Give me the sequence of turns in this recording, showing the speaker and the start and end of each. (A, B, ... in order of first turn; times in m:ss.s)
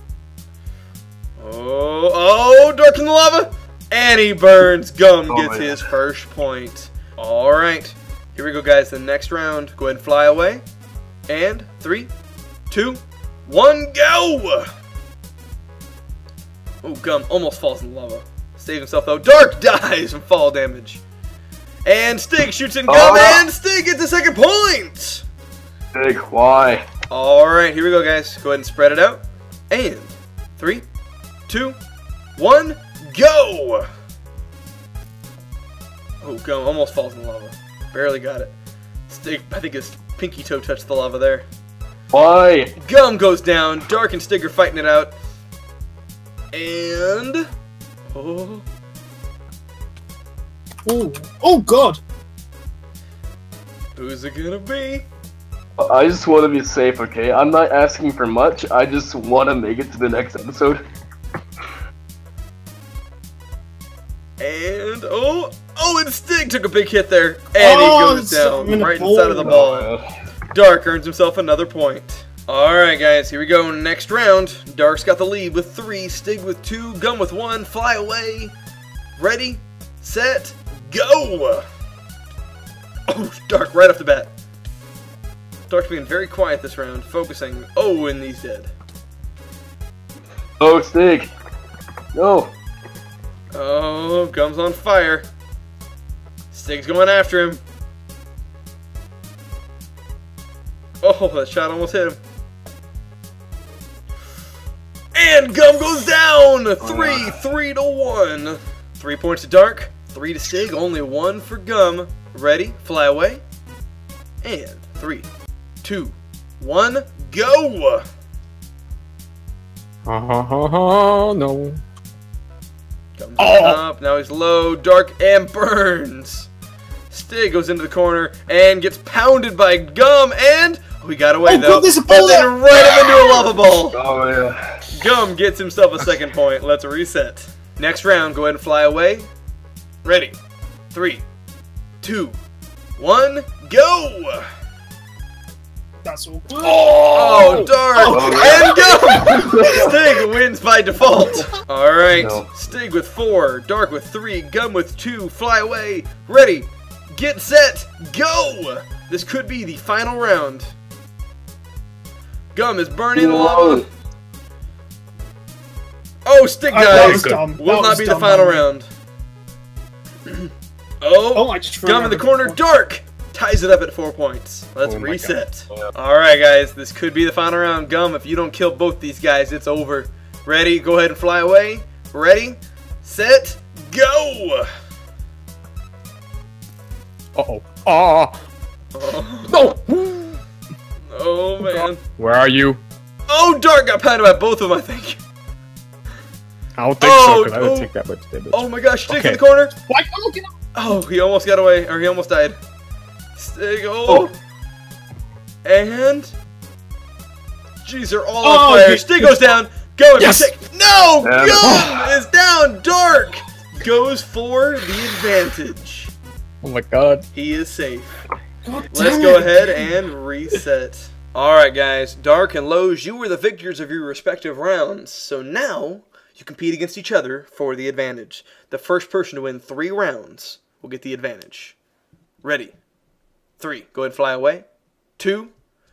0:01.4-0:10.6 A
0:05.3-0:05.8 B
0:11.3-0:12.1 A
0:12.7-0:14.7 A
0:16.8-0:21.0 A
0:21.8-0:25.2 A
0:22.9-0:23.4 B
0:26.0-0:26.8 B
0:27.1-0:30.8 A
0:31.5-0:31.8 A
0:32.4-0:33.9 A
0:36.2-0:38.5 A
0:39.1-0:41.5 A
0:42.1-0:42.7 B
0:42.8-0:45.2 A
0:46.5-0:47.5 A
0:48.1-0:48.6 A
0:50.9-0:52.0 C
0:54.0-0:55.1 A
0:55.8-1:00.8 B
1:04.4-1:09.9 A
1:07.6-1:09.6 C
1:09.4-1:10.0 B
1:10.5-1:18.5 A
1:19.2-1:21.6 A
1:23.1-1:24.3 A
1:25.7-1:28.7 A
1:30.6-1:31.3 B
1:32.2-1:32.5 B
1:33.5-1:35.2 A
1:36.5-1:37.6 A
1:41.0-1:42.2 A
1:45.2-1:53.4 A
1:46.8-1:47.4 B
1:54.4-1:55.3 A
1:55.8-1:58.0 A
2:00.1-2:01.8 D
2:03.2-2:06.5 A
2:03.4-2:03.7 D
2:07.1-2:14.0 A
2:11.4-2:12.6 C
2:13.9-2:14.8 B
2:14.9-2:19.3 A
2:20.0-2:20.4 A
2:20.9-2:21.2 A
2:22.0-2:22.4 A
2:23.0-2:24.5 A
2:26.0-2:29.6 C
2:26.6-2:27.7 D
2:27.1-2:40.7 A
2:28.1-2:30.0 B
2:32.2-2:32.5 B
2:42.6-2:43.9 A
2:43.2-2:43.9 B
2:46.2-2:48.9 A
2:46.7-2:48.7 C
2:46.9-2:47.4 D
2:51.0-3:04.7 A
2:51.3-2:52.6 C
2:54.8-2:55.4 D
3:07.4-3:08.4 D
3:08.9-3:09.6 A
3:09.5-3:10.4 D
3:11.1-3:12.0 A
3:11.6-3:12.8 D
3:13.3-3:15.2 A
3:16.8-3:19.4 D
3:17.0-3:17.9 A
3:18.5-3:19.7 A
3:19.8-3:20.5 C
3:20.8-3:22.6 A
3:23.4-3:24.3 A
3:25.6-3:26.3 A
3:27.8-3:36.1 A
3:28.4-3:29.3 C
3:30.2-3:30.5 D
3:31.2-3:31.9 B
3:36.6-3:37.3 D
3:37.3-3:38.2 A
3:38.6-3:39.9 C
3:38.9-3:51.8 A
3:52.4-3:52.8 A
3:53.6-3:54.7 A
3:55.2-3:55.5 A